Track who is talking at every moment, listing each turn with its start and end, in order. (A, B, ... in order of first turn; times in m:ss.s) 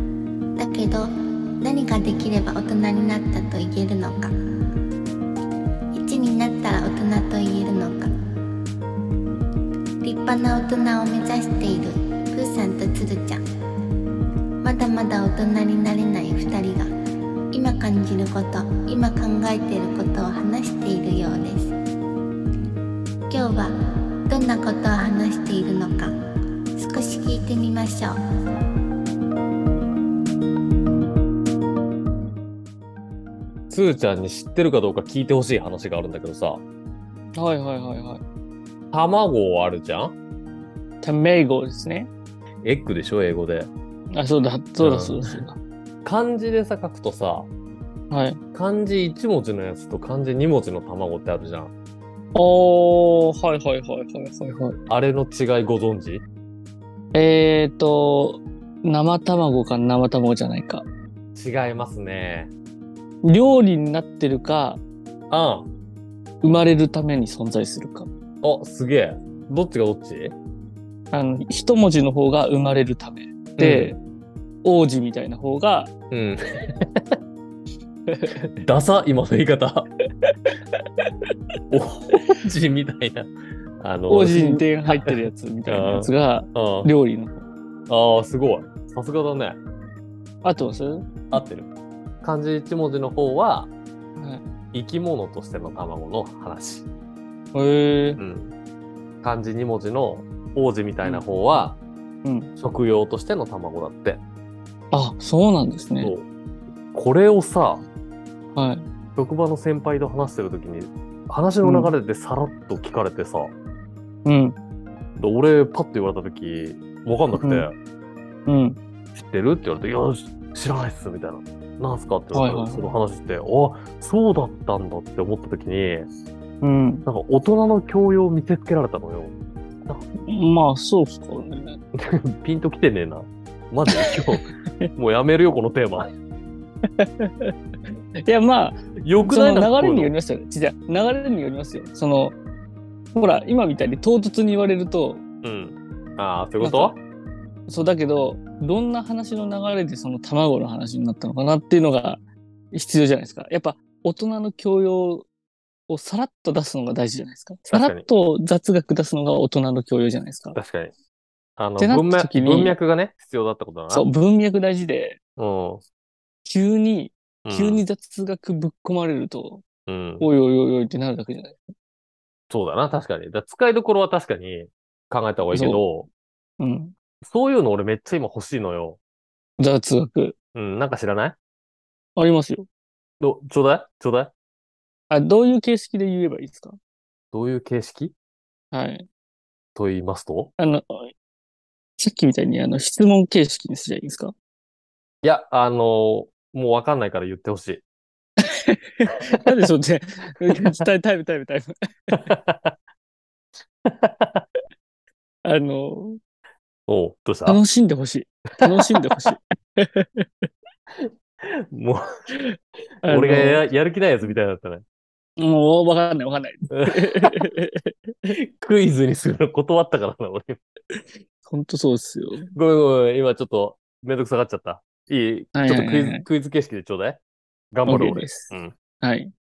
0:00.6-0:01.1 A
0:01.6-0:04.3 A
0:05.9-0:08.1 A
0:10.0-0:13.4 A
0:14.6-0:16.9 A
0:17.5-0:21.7 A
0:23.3-0:23.7 A
0:24.3-0:26.1 A
0:26.8-0:28.2 A
0:33.7-0:36.6 B
0:37.4-0:38.2 C
0:38.9-0:40.2 B
0:41.0-0:42.1 C
0:42.6-0:43.7 B
0:44.1-0:45.6 C
0:44.8-0:45.5 B
0:46.0-0:47.5 B
0:48.1-0:48.4 C
0:48.5-0:51.7 B
0:52.3-0:54.8 C
0:54.9-0:56.2 B
0:57.1-1:00.9 C
1:01.4-1:02.5 B
1:03.2-1:04.8 C
1:05.3-1:05.7 B
1:06.4-1:08.1 C
1:08.4-1:10.3 B
1:11.1-1:14.0 C
1:13.6-1:14.0 B
1:14.6-1:15.9 C
1:16.1-1:17.2 B
1:18.1-1:18.3 C
1:18.6-1:19.9 B
1:20.2-1:20.8 C
1:21.7-1:26.9 B
1:24.1-1:27.4 C
1:27.9-1:29.6 B
1:30.4-1:31.3 C
1:31.3-1:31.7 B
1:32.2-1:33.7 B
1:34.2-1:34.5 C
1:34.7-1:36.9 B
1:37.5-1:38.2 C
1:38.2-1:38.5 B
1:39.2-1:41.8 B
1:41.0-1:41.3 C
1:42.2-1:42.5 C
1:42.6-1:44.2 B
1:44.9-1:46.1 C
1:46.0-1:46.3 B
1:46.9-1:47.8 B
1:48.6-1:48.9 C
1:49.2-1:53.5 B
1:51.6-1:51.9 C
1:54.2-1:54.6 C
1:55.2-1:57.8 B
1:57.4-1:57.7 C
1:58.5-1:58.8 C
1:59.1-2:06.1 B
2:02.3-2:02.9 C
2:06.6-2:07.1 C
2:07.1-2:10.0 B
2:10.3-2:11.8 C
2:12.0-2:16.1 B
2:13.9-2:14.9 C
2:17.0-2:17.5 C
2:18.3-2:22.4 C
2:19.0-2:20.1 B
2:23.1-2:25.2 C
2:25.4-2:27.0 B
2:26.6-2:27.0 C
2:27.7-2:35.3 C
2:35.9-2:40.6 C
2:37.7-2:38.1 B
2:40.6-2:40.9 B
2:41.6-2:44.1 B
2:41.8-2:42.8 C
2:43.9-2:45.2 C
2:45.4-2:45.8 B
2:46.4-2:49.6 C
2:47.4-2:47.8 B
2:49.9-2:50.3 B
2:50.2-2:51.6 C
2:52.5-2:56.1 B
2:55.5-2:55.8 C
2:56.6-2:56.9 C
2:57.2-2:59.0 B
2:59.6-3:00.4 C
3:00.6-3:01.4 B
3:02.2-3:02.7 C
3:03.2-3:04.3 B
3:05.1-3:06.8 C
3:07.3-3:08.1 B
3:08.7-3:09.1 C
3:09.8-3:10.5 B
3:10.6-3:11.1 C
3:12.0-3:14.3 C
3:15.2-3:17.8 B
3:18.4-3:22.3 C
3:22.2-3:22.8 B
3:23.8-3:24.4 B
3:25.4-3:26.2 C
3:26.9-3:27.6 B
3:27.5-3:30.5 C
3:28.6-3:29.4 B
3:31.7-3:32.0 B
3:33.0-3:33.7 C
3:33.1-3:34.8 B
3:35.4-3:38.3 C
3:36.7-3:37.3 B
3:38.4-3:40.6 B
3:41.4-3:42.5 C
3:42.6-3:47.2 B
3:45.6-3:46.2 C
3:47.7-3:48.7 B
3:47.9-3:49.3 C